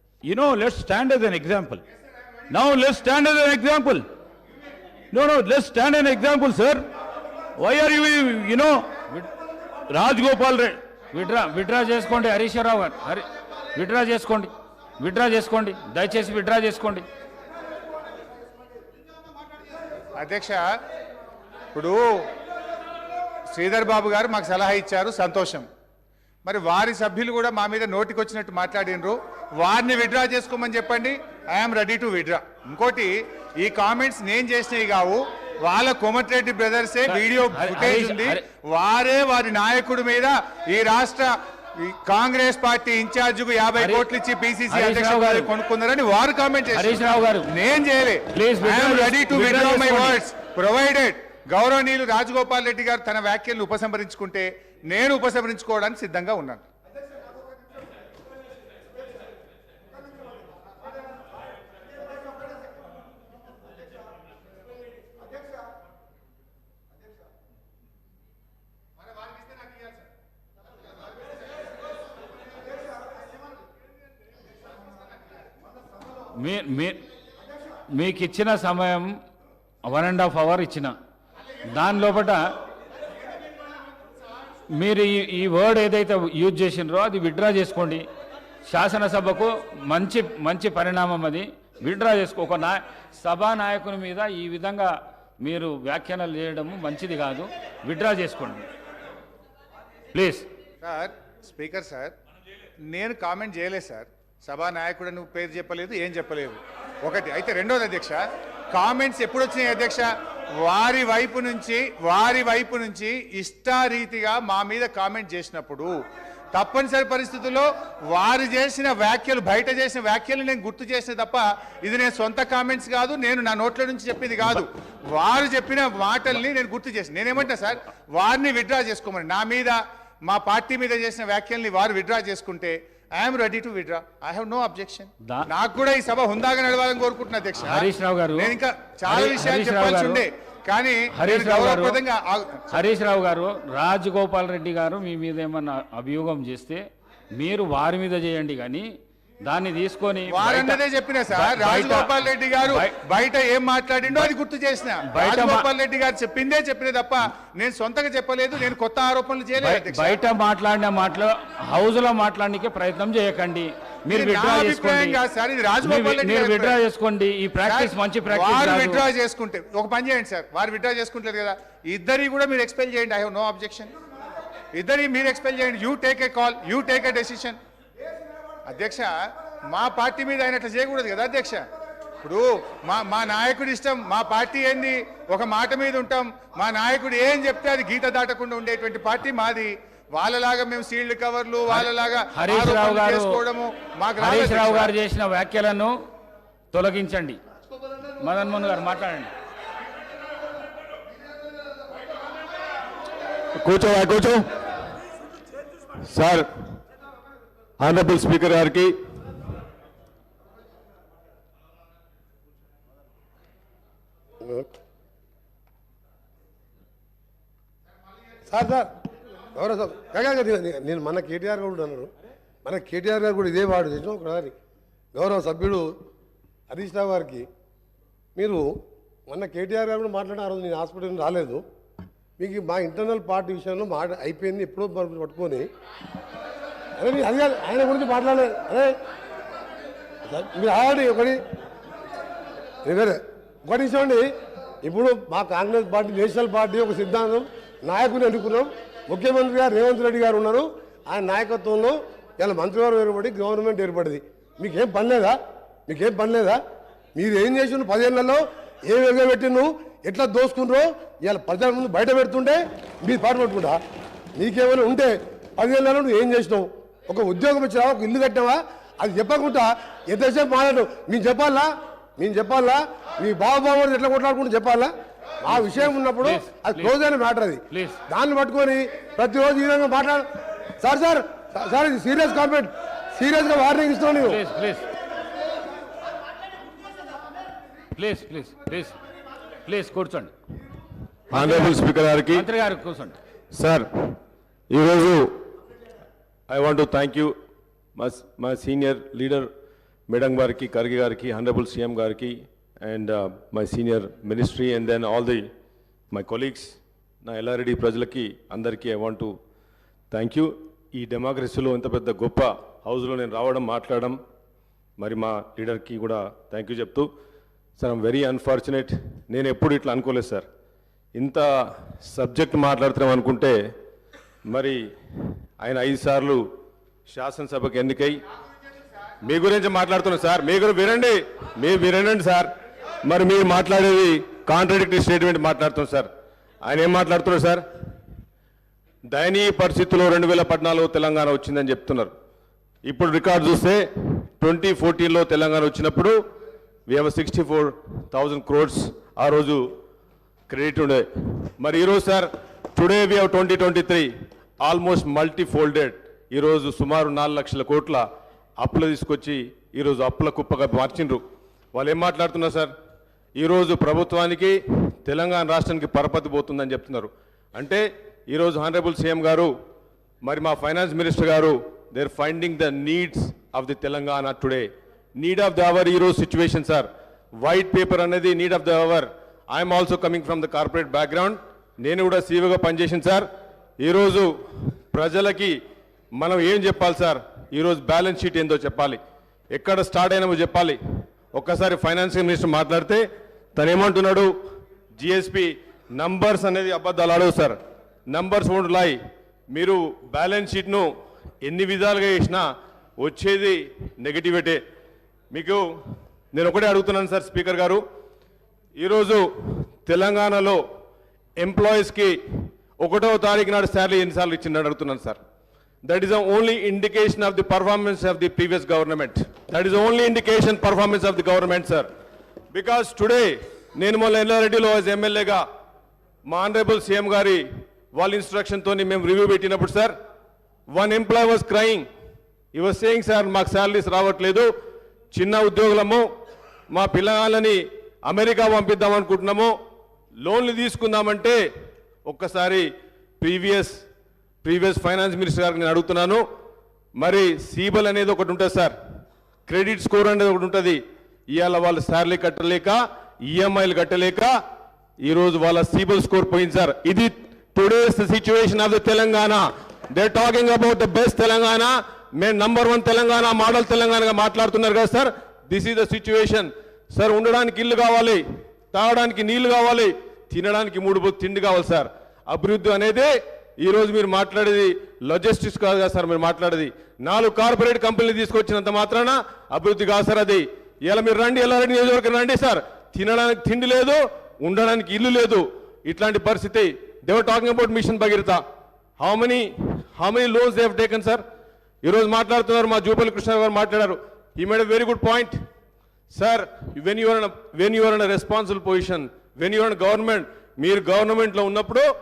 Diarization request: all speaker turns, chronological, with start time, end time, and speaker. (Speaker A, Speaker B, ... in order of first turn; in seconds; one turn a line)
Speaker A: 0.2-1.8
Speaker A: 2.5-4.1
Speaker A: 5.1-6.9
Speaker A: 7.6-8.9
Speaker A: 9.9-10.8
Speaker B: 11.1-17.1
Speaker C: 20.2-20.6
Speaker C: 21.7-22.0
Speaker C: 23.5-25.7
Speaker C: 26.4-46.9
Speaker B: 37.1-38.4
Speaker B: 43.8-44.1
Speaker B: 44.7-45.5
Speaker B: 46.7-47.5
Speaker C: 47.5-56.7
Speaker B: 48.3-50.2
Speaker B: 76.4-77.0
Speaker B: 77.9-79.2
Speaker B: 79.8-81.0
Speaker B: 81.7-82.5
Speaker B: 84.7-88.0
Speaker B: 88.7-98.7
Speaker B: 100.1-100.5
Speaker C: 100.8-102.2
Speaker C: 102.9-115.9
Speaker C: 116.5-142.6
Speaker B: 137.6-140.2
Speaker B: 141.1-142.0
Speaker B: 142.7-148.9
Speaker B: 149.4-152.9
Speaker C: 150.3-160.2
Speaker B: 154.1-154.3
Speaker B: 155.1-155.7
Speaker B: 159.6-165.2
Speaker C: 164.1-166.8
Speaker B: 165.8-169.1
Speaker C: 167.7-173.9
Speaker C: 174.8-177.6
Speaker C: 178.7-179.1
Speaker C: 179.7-181.7
Speaker C: 182.2-194.9
Speaker B: 191.7-193.4
Speaker B: 194.2-195.9
Speaker B: 196.7-197.4
Speaker B: 198.2-199.3
Speaker D: 203.6-204.5
Speaker D: 206.0-206.5
Speaker D: 207.8-208.9
Speaker E: 218.5-218.9
Speaker E: 219.6-222.1
Speaker E: 222.7-224.5
Speaker E: 225.1-225.9
Speaker E: 226.7-227.5
Speaker E: 228.4-228.7
Speaker E: 229.3-231.6
Speaker E: 232.4-235.7
Speaker E: 237.0-238.9
Speaker E: 240.3-241.4
Speaker E: 242.8-244.3
Speaker E: 244.8-255.4
Speaker E: 255.9-256.6
Speaker E: 257.2-263.8
Speaker E: 264.4-280.2
Speaker B: 275.5-276.9
Speaker B: 277.7-278.0
Speaker E: 280.8-284.4
Speaker B: 284.2-284.9
Speaker B: 287.9-289.0
Speaker B: 289.6-290.3
Speaker D: 291.3-292.4
Speaker B: 291.3-293.2
Speaker D: 293.5-294.2
Speaker D: 294.7-295.4
Speaker D: 296.5-297.4
Speaker D: 298.0-299.5
Speaker D: 300.1-305.5
Speaker D: 306.1-309.3
Speaker D: 310.1-314.2
Speaker D: 315.0-317.1
Speaker D: 317.8-320.5
Speaker D: 321.2-323.6
Speaker D: 324.5-324.9
Speaker D: 325.6-326.4
Speaker D: 327.1-328.2
Speaker D: 329.2-332.5
Speaker D: 333.1-336.1
Speaker D: 336.6-337.6
Speaker D: 339.1-342.1
Speaker D: 342.9-346.2
Speaker D: 346.9-349.7
Speaker D: 350.5-351.1
Speaker D: 351.6-354.1
Speaker D: 354.6-358.1
Speaker D: 358.6-361.2
Speaker D: 361.7-362.7
Speaker D: 363.4-369.5
Speaker D: 370.2-376.9
Speaker D: 377.4-383.3
Speaker D: 383.8-385.6
Speaker D: 386.2-389.0
Speaker D: 389.5-390.8
Speaker D: 391.3-393.0
Speaker D: 393.6-394.3
Speaker D: 395.0-399.0
Speaker D: 399.5-400.9
Speaker D: 401.4-402.5
Speaker D: 403.0-404.6
Speaker D: 405.3-405.6
Speaker D: 406.3-407.8
Speaker D: 408.8-410.6
Speaker D: 411.4-412.2
Speaker D: 412.8-415.2
Speaker D: 415.9-421.9
Speaker D: 422.5-425.4
Speaker D: 426.3-427.4
Speaker D: 427.9-429.9
Speaker D: 430.7-431.9
Speaker D: 432.5-434.5
Speaker D: 435.1-436.1
Speaker D: 436.7-439.5
Speaker D: 440.2-441.4
Speaker D: 442.1-443.8
Speaker D: 444.4-446.2
Speaker D: 447.0-448.8
Speaker D: 449.5-450.8
Speaker D: 451.3-454.3
Speaker D: 455.0-488.4
Speaker D: 489.0-491.2
Speaker D: 491.8-495.4
Speaker D: 496.1-501.9